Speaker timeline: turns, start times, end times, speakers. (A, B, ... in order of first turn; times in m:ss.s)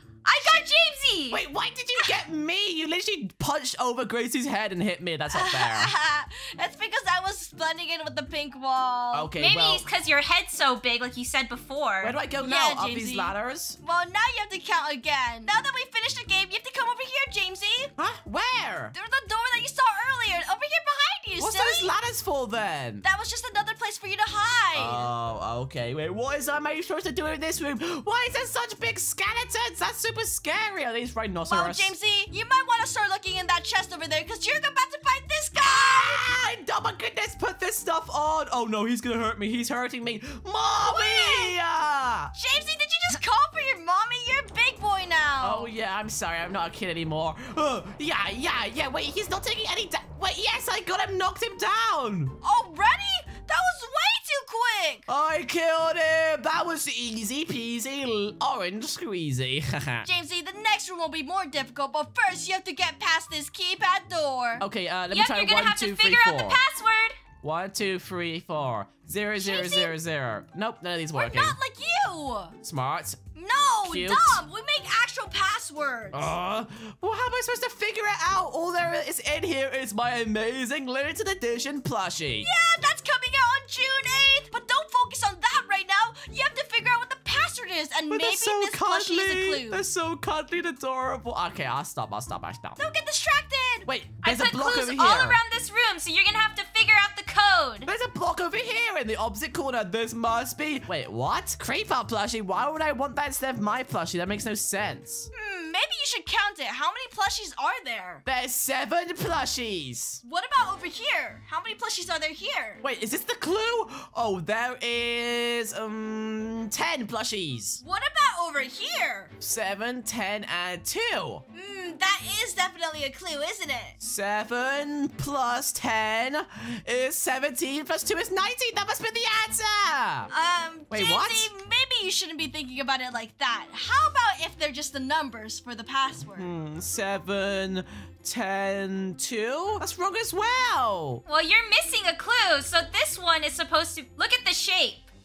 0:00.2-0:01.4 A
0:01.3-0:05.9 B
0:05.3-0:09.3 C
0:09.1-0:09.8 B
0:09.4-0:12.2 A
0:12.0-0:13.8 B
0:12.4-0:17.9 C
0:18.0-0:18.9 B
0:18.9-0:21.9 C
0:21.4-0:23.0 B
0:23.0-0:25.1 C
0:24.8-0:31.9 B
0:31.5-0:36.3 C
0:35.6-0:42.3 B
0:40.8-0:41.6 C
0:42.3-0:45.7 C
0:45.4-0:52.4 B
0:52.4-0:55.0 C
0:55.1-1:00.1 B
1:00.0-1:04.6 C
1:04.6-1:06.6 B
1:05.1-1:07.2 A
1:07.4-1:11.5 B
1:09.4-1:09.9 C
1:11.1-1:12.5 C
1:12.6-1:13.2 B
1:13.4-1:16.3 C
1:13.8-1:14.4 B
1:16.1-1:22.5 B
1:22.4-1:29.8 C
1:28.1-1:32.8 B
1:32.8-1:33.9 C
1:33.8-1:35.4 B
1:34.2-1:37.9 A
1:37.8-1:45.3 B
1:45.3-1:48.2 C
1:48.2-1:50.2 B
1:50.2-1:52.8 C
1:52.8-1:57.8 B
1:57.8-1:59.3 C
1:59.4-2:01.4 B
2:01.5-2:03.9 C
2:04.0-2:10.3 B
2:10.3-2:16.5 C
2:10.9-2:11.5 B
2:16.3-2:21.2 B
2:21.2-2:25.0 A